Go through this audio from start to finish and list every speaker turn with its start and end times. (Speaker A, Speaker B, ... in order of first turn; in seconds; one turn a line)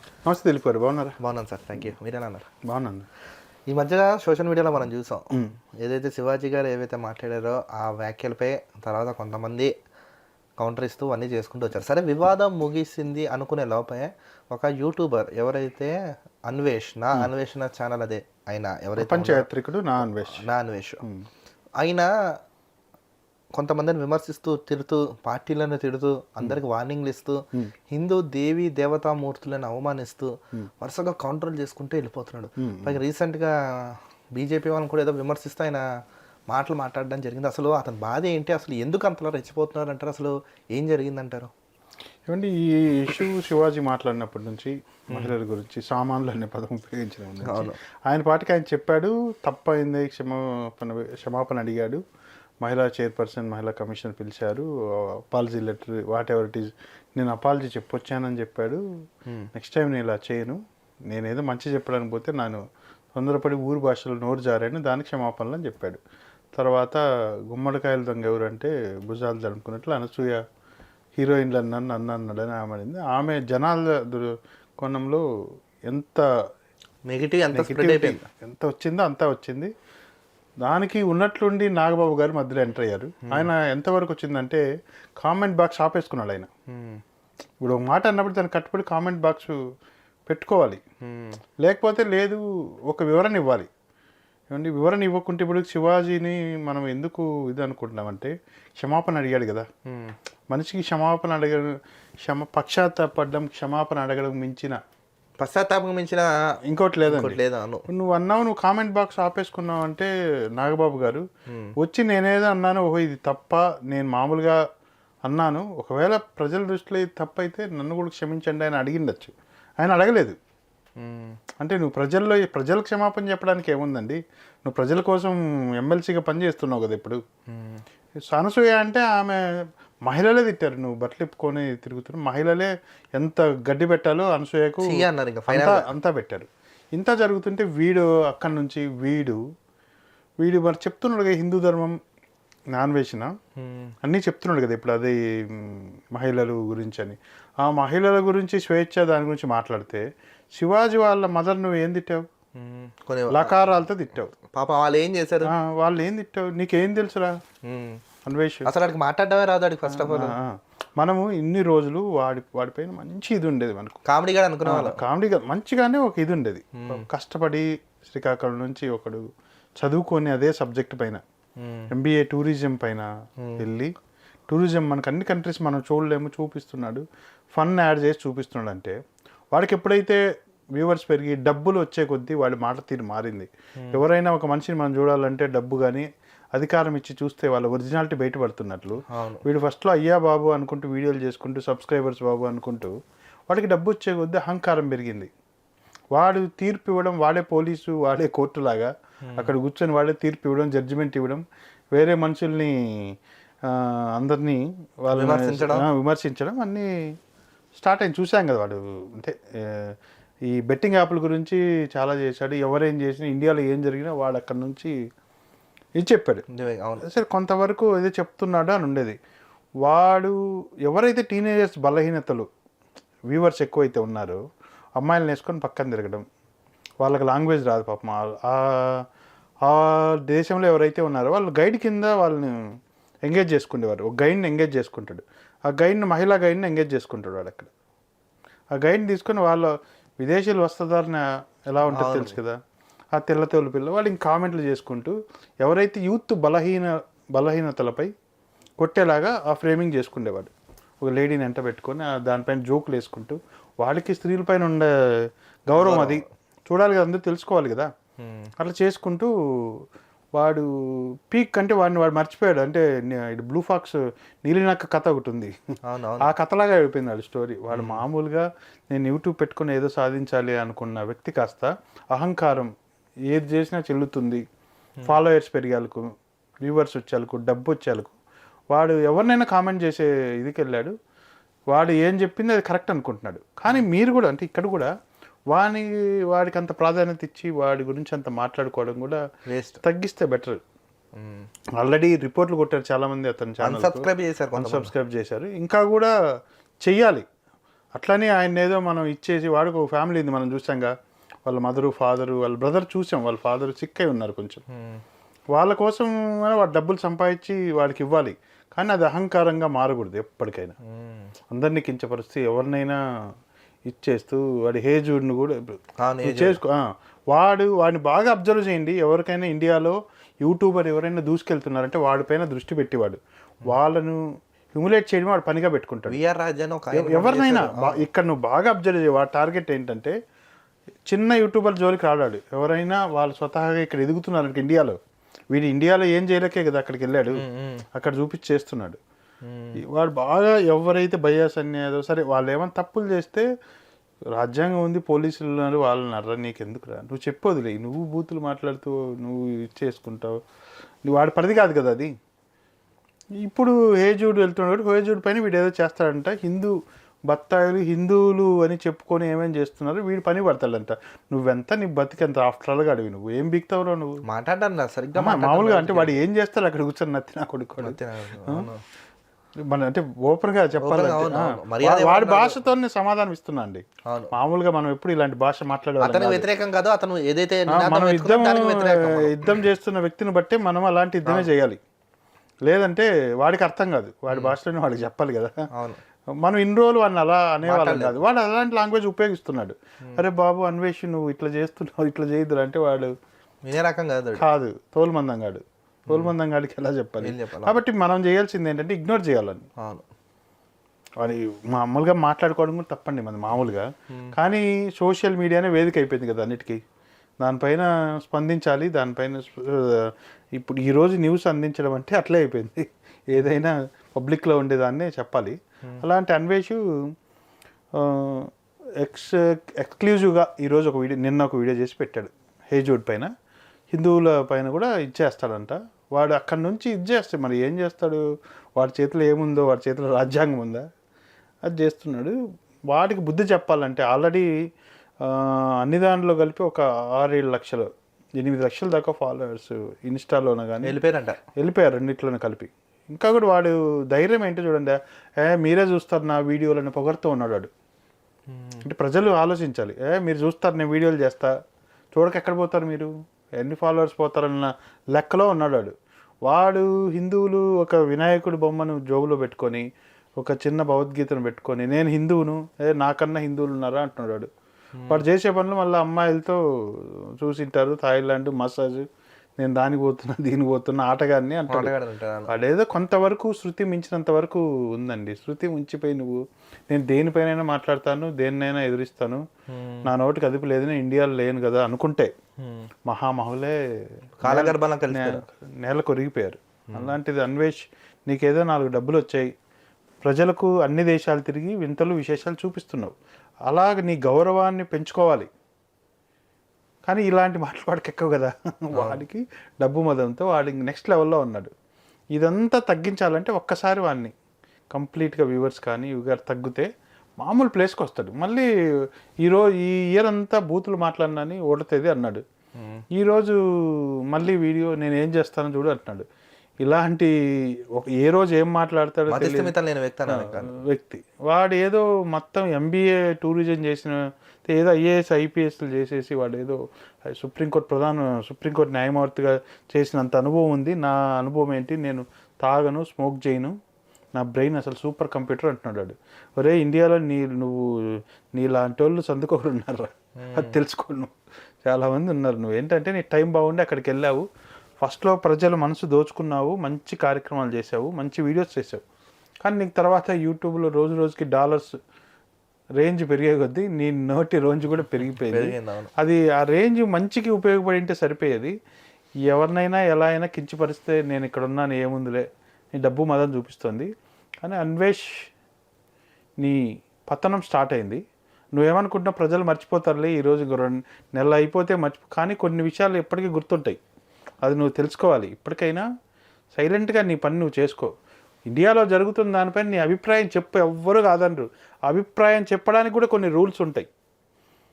Speaker A: 0.2-1.1
Speaker B: 1.2-2.5
Speaker A: 2.6-3.1
Speaker B: 3.7-9.7
Speaker B: 10.6-15.9
Speaker B: 16.5-19.5
Speaker A: 18.9-20.4
Speaker B: 20.3-21.0
Speaker A: 21.0-21.3
Speaker B: 21.8-22.1
Speaker B: 23.5-35.8
Speaker A: 32.6-33.0
Speaker B: 36.5-41.5
Speaker A: 42.3-52.0
Speaker B: 47.4-47.8
Speaker A: 52.6-58.8
Speaker A: 59.5-60.6
Speaker A: 61.1-62.6
Speaker A: 63.1-66.0
Speaker A: 66.5-70.4
Speaker A: 71.2-75.2
Speaker A: 75.9-76.2
Speaker B: 77.1-78.3
Speaker A: 77.5-79.7
Speaker A: 80.6-84.6
Speaker A: 85.2-86.5
Speaker B: 86.7-87.0
Speaker A: 87.6-89.5
Speaker A: 90.3-90.8
Speaker B: 91.0-91.4
Speaker A: 91.6-93.7
Speaker A: 94.5-99.7
Speaker B: 99.9-100.1
Speaker A: 100.5-101.7
Speaker A: 102.2-104.8
Speaker B: 105.4-106.3
Speaker A: 106.7-111.2
Speaker B: 107.1-107.8
Speaker A: 111.8-114.6
Speaker A: 115.2-120.3
Speaker B: 121.0-121.3
Speaker A: 121.6-127.2
Speaker B: 127.5-127.8
Speaker A: 128.3-129.4
Speaker A: 130.1-139.4
Speaker B: 134.8-135.9
Speaker A: 140.4-141.9
Speaker A: 142.7-143.3
Speaker B: 143.6-143.9
Speaker A: 144.0-150.0
Speaker A: 150.5-152.2
Speaker B: 152.6-153.7
Speaker A: 153.3-154.3
Speaker B: 154.5-155.5
Speaker A: 155.4-157.3
Speaker B: 157.7-158.0
Speaker A: 158.2-158.7
Speaker B: 158.7-160.3
Speaker A: 159.9-164.0
Speaker B: 164.1-165.0
Speaker A: 164.7-169.2
Speaker B: 166.8-167.0
Speaker A: 169.8-171.2
Speaker B: 171.6-171.9
Speaker A: 171.9-173.1
Speaker A: 173.6-173.9
Speaker A: 174.5-177.0
Speaker A: 177.5-178.9
Speaker A: 179.5-180.2
Speaker A: 180.8-192.9
Speaker B: 189.1-189.4
Speaker A: 193.5-195.3
Speaker A: 196.1-203.1
Speaker A: 203.7-206.9
Speaker B: 205.1-205.8
Speaker A: 207.7-209.9
Speaker A: 210.5-214.9
Speaker A: 216.0-216.4
Speaker B: 216.5-217.0
Speaker A: 217.0-219.2
Speaker A: 219.8-220.3
Speaker A: 220.9-222.5
Speaker A: 223.3-224.4
Speaker A: 225.0-226.2
Speaker A: 227.0-229.0
Speaker A: 229.6-232.5
Speaker A: 233.2-237.7
Speaker A: 238.7-242.6
Speaker B: 241.9-242.3
Speaker A: 243.1-248.1
Speaker A: 248.8-250.5
Speaker A: 251.0-254.9
Speaker A: 255.7-257.9
Speaker B: 255.8-256.2
Speaker B: 258.2-258.5
Speaker A: 258.6-259.8
Speaker A: 260.3-265.5
Speaker B: 265.9-266.3
Speaker A: 266.2-272.7
Speaker B: 267.7-268.0
Speaker A: 273.3-274.4
Speaker A: 275.1-276.1
Speaker A: 276.6-278.1
Speaker A: 278.7-280.9
Speaker A: 281.7-284.9
Speaker A: 285.5-289.2
Speaker B: 289.5-289.8
Speaker A: 289.8-290.6
Speaker B: 291.2-291.5
Speaker A: 291.8-296.1
Speaker B: 293.6-294.9
Speaker A: 296.8-297.2
Speaker A: 297.9-300.9
Speaker A: 301.4-304.6
Speaker B: 304.8-305.0
Speaker A: 305.5-310.7
Speaker B: 310.9-311.3
Speaker A: 311.5-313.0
Speaker A: 313.9-315.6
Speaker B: 316.0-316.6
Speaker A: 316.2-324.2
Speaker A: 324.7-326.2
Speaker B: 326.1-328.0
Speaker A: 326.9-330.1
Speaker A: 331.1-335.0
Speaker A: 335.5-339.0
Speaker B: 337.3-337.8
Speaker B: 339.5-339.8
Speaker A: 339.9-343.4
Speaker A: 344.3-350.4
Speaker A: 351.0-352.1
Speaker A: 353.4-356.7
Speaker A: 357.3-364.1
Speaker B: 364.3-366.1
Speaker A: 365.1-368.7
Speaker B: 367.8-368.8
Speaker A: 369.7-376.5
Speaker B: 370.8-372.7
Speaker B: 376.0-379.3
Speaker A: 377.7-381.8
Speaker B: 381.2-381.5
Speaker A: 382.7-385.6
Speaker B: 385.7-386.0
Speaker A: 386.4-393.1
Speaker B: 387.6-388.2
Speaker B: 393.6-394.4
Speaker A: 394.4-399.6
Speaker B: 396.1-396.3
Speaker B: 397.2-397.8
Speaker B: 399.8-400.0
Speaker A: 401.2-406.8
Speaker A: 407.4-416.8
Speaker A: 417.9-418.5
Speaker A: 419.0-423.3
Speaker A: 423.9-428.2
Speaker A: 428.8-430.8
Speaker A: 431.7-432.3
Speaker A: 432.9-434.4
Speaker A: 435.2-441.0
Speaker B: 440.8-441.4
Speaker A: 441.6-447.7
Speaker B: 448.5-448.8
Speaker A: 448.8-451.5
Speaker A: 452.1-455.9
Speaker A: 456.4-459.8
Speaker A: 460.4-464.5
Speaker B: 465.0-465.2
Speaker A: 465.1-469.0
Speaker A: 469.6-471.9
Speaker B: 471.7-472.5
Speaker A: 472.5-479.4
Speaker B: 479.7-480.0
Speaker A: 480.1-482.3
Speaker A: 483.1-483.7
Speaker B: 484.4-485.4
Speaker A: 484.4-489.5
Speaker A: 490.2-493.1
Speaker A: 493.7-495.5
Speaker A: 497.1-501.7
Speaker B: 498.9-499.2
Speaker A: 502.3-504.3
Speaker A: 504.9-506.9
Speaker A: 507.4-508.7
Speaker A: 509.4-512.4
Speaker B: 512.8-513.0
Speaker A: 513.1-516.2
Speaker A: 516.8-517.3
Speaker A: 517.9-519.7
Speaker B: 519.3-520.7
Speaker A: 520.3-526.8
Speaker A: 527.3-533.7
Speaker A: 534.3-537.9
Speaker A: 538.5-541.3
Speaker B: 540.4-540.7
Speaker A: 541.8-544.4
Speaker A: 545.0-549.0
Speaker A: 549.6-552.0
Speaker A: 553.0-558.7
Speaker B: 555.4-556.1
Speaker A: 559.5-562.4
Speaker A: 563.0-564.1
Speaker A: 564.6-565.2
Speaker A: 566.6-568.2
Speaker A: 568.7-574.0
Speaker A: 574.6-576.0
Speaker A: 576.7-578.1
Speaker A: 578.7-584.1